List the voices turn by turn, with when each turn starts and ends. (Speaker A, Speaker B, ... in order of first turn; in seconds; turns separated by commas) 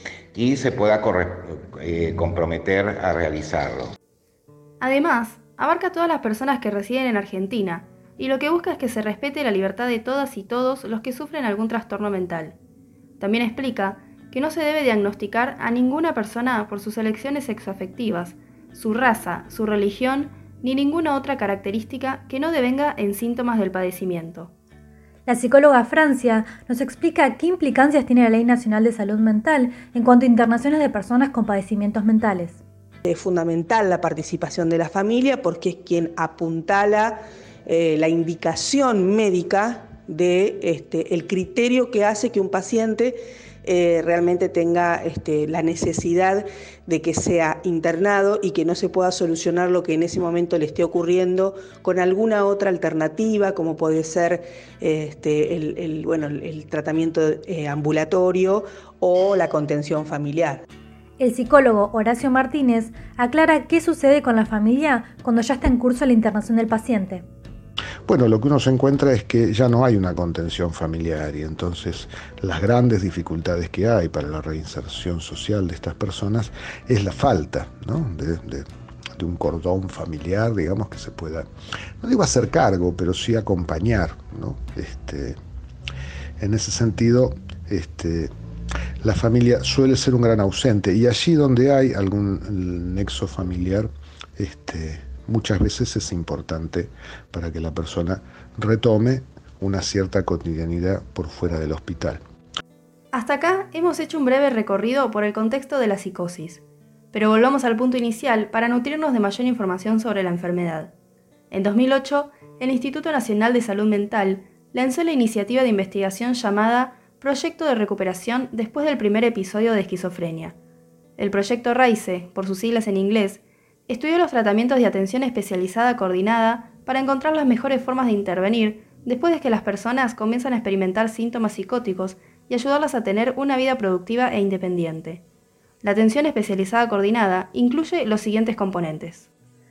Speaker A: 0.3-3.9, Speaker B: 4.8-12.6, Speaker B: 13.2-24.5, Speaker C: 25.3-32.6, Speaker D: 33.1-60.6, Speaker C: 61.2-67.2, Speaker E: 68.1-81.5, Speaker E: 82.0-85.4, Speaker E: 86.4-88.3, Speaker E: 89.0-102.2, Speaker B: 103.1-106.6, Speaker B: 107.1-110.9, Speaker B: 111.5-120.6, Speaker B: 121.2-135.2, Speaker B: 135.8-139.3